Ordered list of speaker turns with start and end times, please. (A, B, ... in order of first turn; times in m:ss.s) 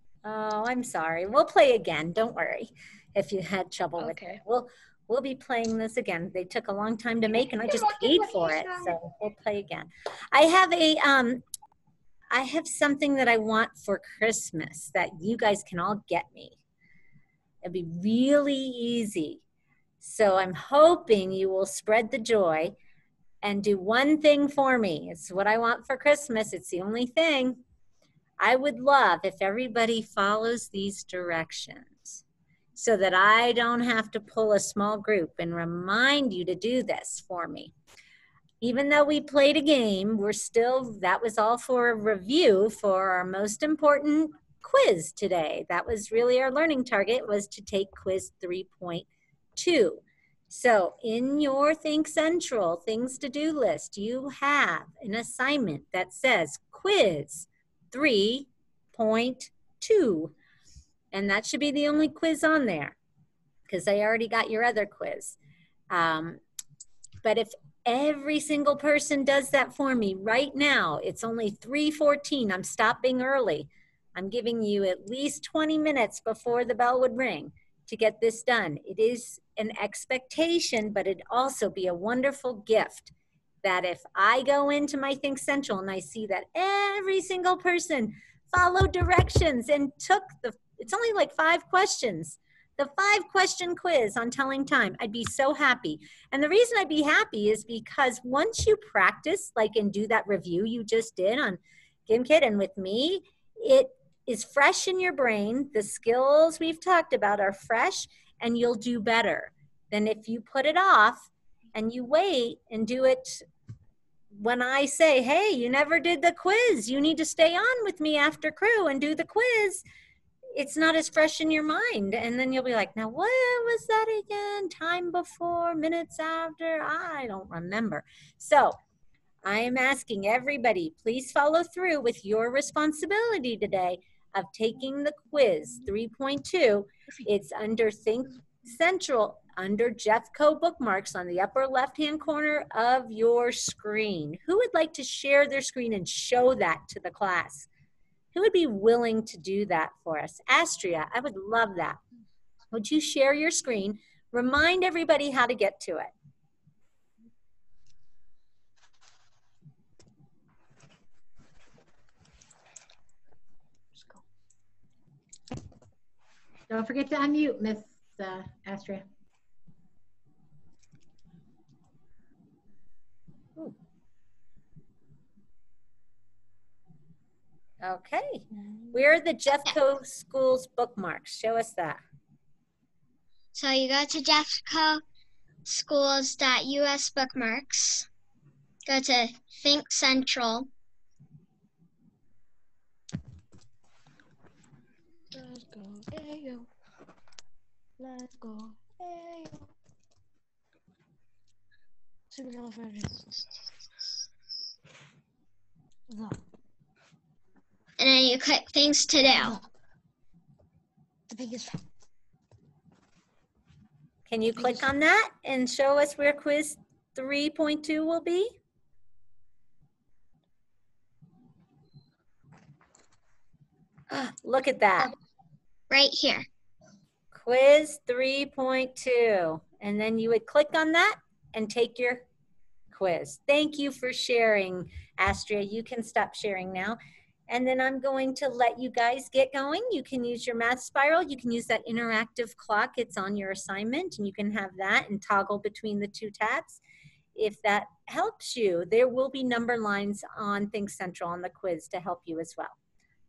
0:00.2-0:11.4 A
0:04.0-0:04.4 B
0:07.6-0:08.9 B
0:12.3-0:16.6 A
0:17.6-0:19.4 A
0:20.0-0:22.7 A
0:23.4-0:27.6 A
0:28.4-0:32.2 A
0:32.7-0:37.7 A
0:38.6-1:00.3 A
1:01.1-1:03.0 A
1:03.7-1:05.4 A
1:05.9-1:06.4 A
1:07.2-1:53.4 A
1:54.3-1:59.8 A
2:00.5-2:08.8 A
2:09.4-2:27.7 A
2:28.3-2:32.0 A
2:32.7-2:36.1 A
2:46.7-2:49.0 C
2:57.8-3:02.0 A
3:03.5-3:05.0 D
3:05.6-3:08.1 D
3:08.8-3:10.7 D
3:15.3-3:16.7 B
3:18.0-3:19.6 B
3:22.3-3:23.4 B
3:26.1-3:26.4 B
3:28.0-3:29.6 D
3:31.3-3:31.8 B
3:34.3-3:38.5 A
3:44.1-3:45.1 A
3:45.9-3:46.4 D
3:47.3-3:52.2 A
3:52.9-4:06.8 A
4:07.3-4:12.8 A